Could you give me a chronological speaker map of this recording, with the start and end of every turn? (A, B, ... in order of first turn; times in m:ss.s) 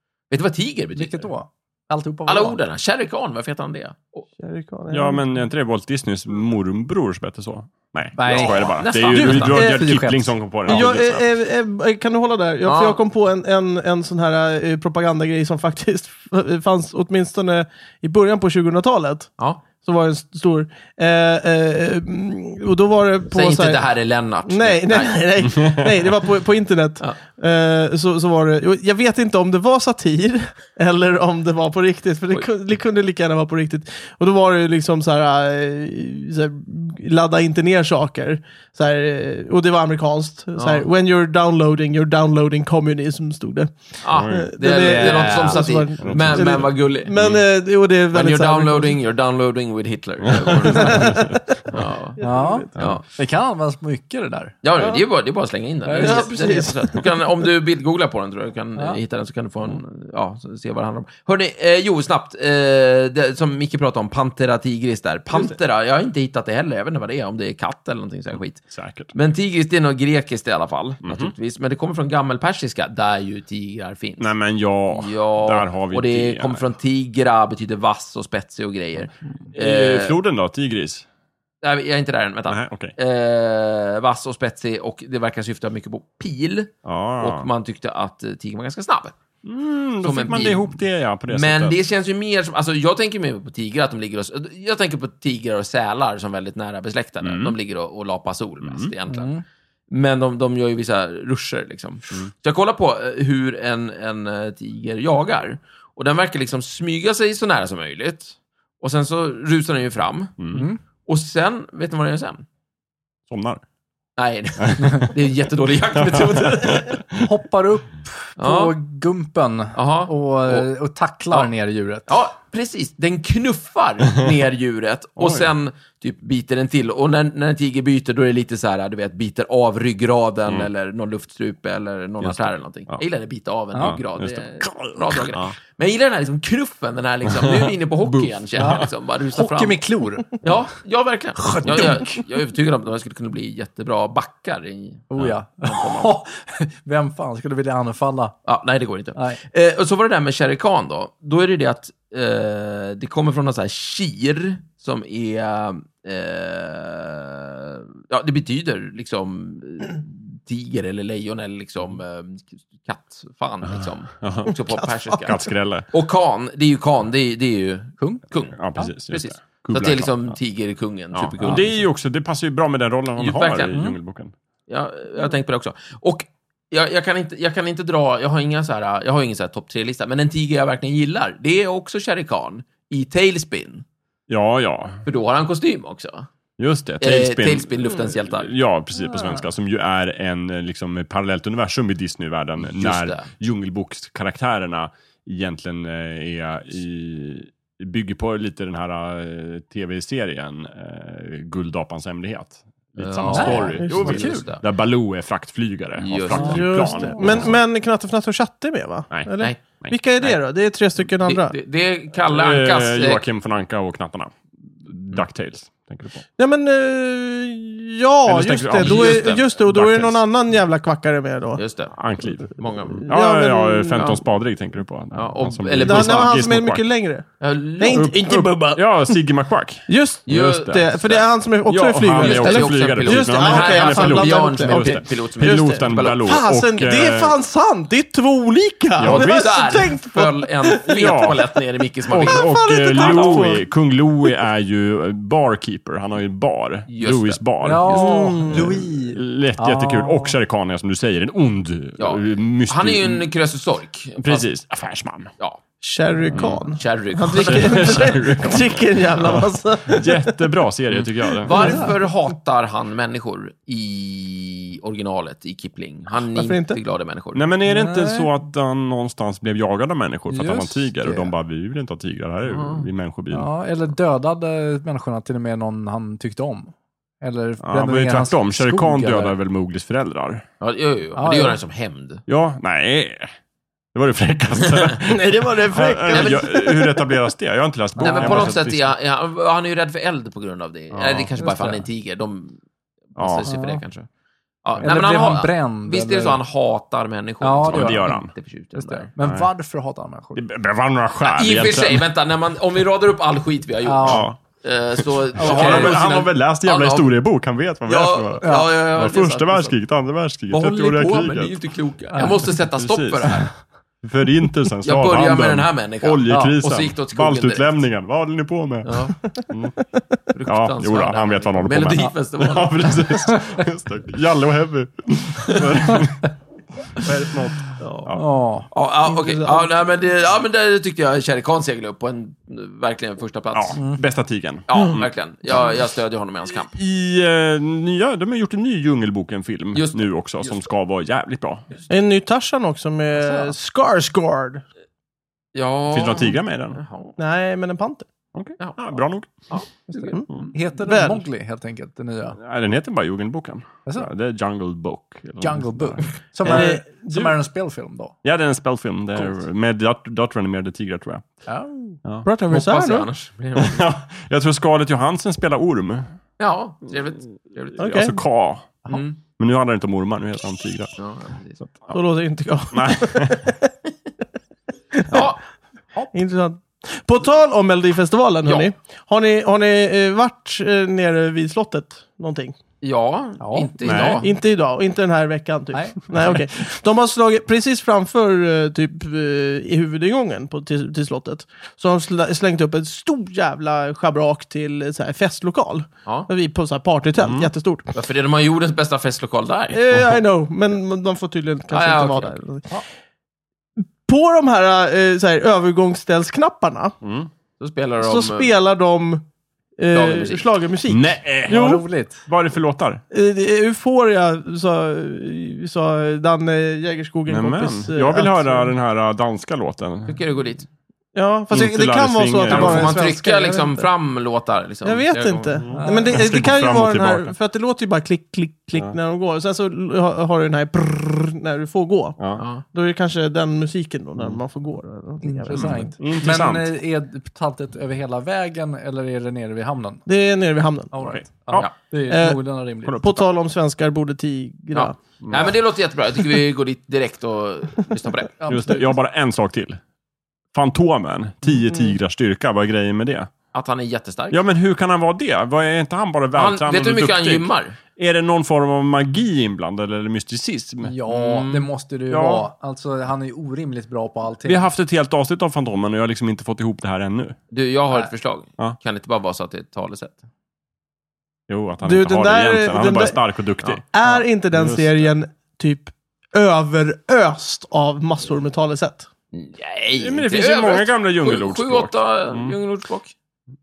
0:00.3-0:01.3 A
0:01.0-0:02.6 B
0:02.3-0:04.3 A
0:04.4-0:05.3 C
0:04.9-0:11.2 D
0:08.2-0:10.8 B
0:08.2-0:09.6 A
0:09.1-0:10.0 C
0:10.7-0:23.9 C
0:12.6-0:13.0 A
0:23.3-0:25.2 A
0:24.5-0:49.0 C
0:25.4-0:25.9 D
0:40.6-0:40.9 A
0:44.0-0:47.1 A
0:44.0-0:44.6 D
0:44.8-0:45.8 B
0:46.0-0:47.4 D
0:48.1-0:53.0 A
0:50.3-0:51.8 D
0:50.7-0:52.8 C
0:52.2-0:54.6 B
0:54.6-1:14.3 A
0:55.8-0:56.8 B
0:56.0-0:57.2 C
0:58.8-0:59.0 B
1:08.6-1:09.1 D
1:11.0-1:11.3 D
1:14.2-1:16.7 D
1:14.9-1:20.2 A
1:19.5-1:21.0 D
1:21.6-1:29.2 A
1:22.5-1:22.9 D
1:26.8-1:27.5 D
1:29.4-1:31.8 D
1:30.0-1:39.3 A
1:37.2-1:37.6 D
1:38.6-1:38.9 D
1:39.1-1:39.4 B
1:39.9-1:50.4 A
1:50.4-1:50.7 D
1:50.5-1:50.8 B
1:51.1-1:52.4 A
1:53.3-1:53.6 D
1:54.2-1:57.0 A
1:54.6-1:55.2 D
1:56.0-1:57.3 D
1:57.2-2:02.1 B
1:58.4-1:58.8 A
1:59.7-2:00.7 A
2:02.1-2:25.1 A
2:05.2-2:05.5 D
2:12.2-2:13.0 D
2:13.7-2:14.0 B
2:13.8-2:15.6 D
2:17.3-2:18.9 D
2:18.6-2:20.6 B
2:21.4-2:22.3 B
2:25.1-2:28.4 B
2:25.6-2:26.1 A
2:28.4-2:48.6 A
2:43.8-2:44.6 D
2:44.7-2:45.4 C
2:45.2-2:45.9 D
2:48.5-2:50.4 D
2:49.1-2:51.8 A
2:51.1-2:54.3 D
2:53.2-2:53.9 A
2:54.7-3:03.8 A
3:04.3-3:05.0 D
3:05.0-3:06.3 A
3:06.6-3:27.6 D
3:07.0-3:08.5 A
3:12.6-3:13.3 A
3:23.0-3:24.6 A
3:23.3-3:24.5 B
3:26.0-3:26.9 A
3:26.3-3:26.6 B
3:26.4-3:31.6 C
3:29.1-3:30.0 D
3:31.2-3:33.2 A
3:32.2-3:36.2 D
3:36.4-3:41.6 C
3:38.2-3:40.2 D
3:38.8-3:39.5 A
3:41.6-3:43.1 A
3:42.0-3:46.8 D
3:43.1-3:44.2 C
3:45.2-3:46.4 A
3:45.8-3:49.2 C
3:47.4-3:48.1 A
3:47.9-3:57.4 D
3:49.9-4:01.4 C
3:50.3-3:51.2 A
3:52.1-3:56.4 A
3:59.0-3:59.6 D
3:59.0-4:03.5 A
4:00.9-4:01.4 D
4:02.1-4:13.3 D
4:02.1-4:03.7 C
4:06.9-4:07.4 A
4:07.6-4:10.4 B
4:07.9-4:08.8 C
4:12.0-4:14.5 A
4:14.2-4:15.3 D
4:15.8-4:20.5 C
4:16.3-4:16.7 D
4:16.5-4:18.2 A
4:17.4-4:21.8 D
4:20.9-4:27.5 A
4:21.6-4:21.9 B
4:26.3-4:26.8 C
4:27.4-4:33.5 D
4:27.6-4:28.3 B
4:30.3-4:31.4 B
4:32.5-4:32.9 A
4:33.3-4:39.4 B
4:37.6-4:40.5 D
4:40.6-4:42.2 A
4:41.2-4:41.6 B
4:42.3-4:43.3 D
4:43.9-4:48.9 D
4:45.0-4:47.1 C
4:46.1-4:46.5 A
4:48.0-4:48.5 B
4:48.0-4:52.6 A
4:50.9-4:51.3 D
4:51.4-4:51.9 B
4:53.1-4:54.1 A
4:53.2-4:53.5 D
4:53.5-4:53.8 B
4:54.6-4:59.1 A
4:54.8-4:56.4 B
4:57.4-5:00.4 B
4:57.7-4:58.3 D
4:59.2-4:59.5 D
5:00.4-5:02.1 D
5:01.2-5:07.2 A
5:03.8-5:04.3 B
5:04.0-5:04.4 D
5:05.0-5:11.6 D
5:05.4-5:06.0 B
5:07.9-5:09.8 A
5:08.4-5:08.7 B
5:10.5-5:13.5 A
5:12.2-5:12.4 B
5:12.2-5:19.7 D
5:14.8-5:17.8 A
5:16.3-5:16.6 B
5:18.8-5:19.2 A
5:19.3-5:19.8 C
5:20.3-5:23.1 A
5:20.5-5:26.3 D
5:26.9-5:28.2 D
5:28.2-5:28.7 B
5:28.7-5:33.8 A
5:29.1-5:29.7 C
5:33.5-5:35.1 D
5:33.8-5:34.0 B
5:34.7-5:36.8 A
5:36.7-5:41.6 D
5:39.7-5:40.6 A
5:41.9-5:44.6 C
5:43.2-5:43.5 B
5:45.6-5:47.2 A
5:45.9-5:46.8 D
5:47.2-5:48.1 C
5:48.3-5:49.3 D
5:48.6-5:50.5 A
5:49.9-5:52.4 B
5:50.1-5:51.2 C
5:52.4-5:56.6 D
5:55.4-5:58.2 B
5:56.4-5:57.1 C
5:58.2-6:01.3 D
6:01.5-6:02.0 B
6:02.2-6:03.1 C
6:02.5-6:03.8 A
6:03.6-6:06.1 D
6:06.4-6:08.2 A
6:07.8-6:08.1 C
6:07.8-6:10.9 D
6:08.9-6:09.2 A
6:11.0-6:11.6 A
6:11.6-6:12.0 D
6:11.9-6:13.7 C
6:12.7-6:13.5 D
6:14.9-6:15.3 C
6:15.1-6:15.4 A
6:16.1-6:22.6 C
6:22.8-6:24.3 A
6:23.4-6:24.2 B
6:23.8-6:24.2 D
6:24.2-6:37.9 C
6:25.7-6:26.0 B
6:37.2-6:37.5 D
6:38.0-6:39.8 A
6:39.7-6:42.7 C
6:41.7-6:42.4 A
6:44.1-6:47.0 C
6:47.0-6:47.3 D
6:47.6-6:48.5 A
6:48.0-6:49.2 C
6:49.8-6:51.8 C
6:49.9-6:50.5 A
6:50.9-6:51.6 D
6:51.5-6:52.3 B
6:52.3-6:53.0 D
6:53.1-6:58.7 C
6:57.3-7:00.2 D
7:00.1-7:00.7 A
7:01.2-7:03.9 C
7:01.5-7:03.0 D
7:02.5-7:05.6 A
7:04.8-7:15.9 C
7:05.6-7:07.4 D
7:05.7-7:06.1 B
7:12.2-7:12.4 D
7:12.4-7:12.6 A
7:15.2-7:20.0 B
7:15.5-7:16.7 D
7:20.1-7:21.4 C
7:20.9-7:23.0 B
7:21.0-7:21.8 D
7:22.1-7:25.4 C
7:22.9-7:23.2 D
7:24.7-7:28.3 A
7:25.2-7:25.5 D
7:28.4-7:29.0 B
7:28.5-7:29.8 D
7:30.5-7:33.3 D
7:33.5-7:34.4 A
7:34.3-7:41.0 D
7:36.4-7:37.8 A
7:40.8-7:44.7 B
7:41.1-7:41.7 A
7:42.1-7:42.5 D
7:44.4-7:47.4 D
7:47.5-7:50.2 A
7:51.5-7:53.9 D
7:51.8-7:53.2 C
7:53.8-7:59.1 C
7:54.5-7:55.0 D
7:59.3-8:03.2 A
8:00.0-8:02.6 D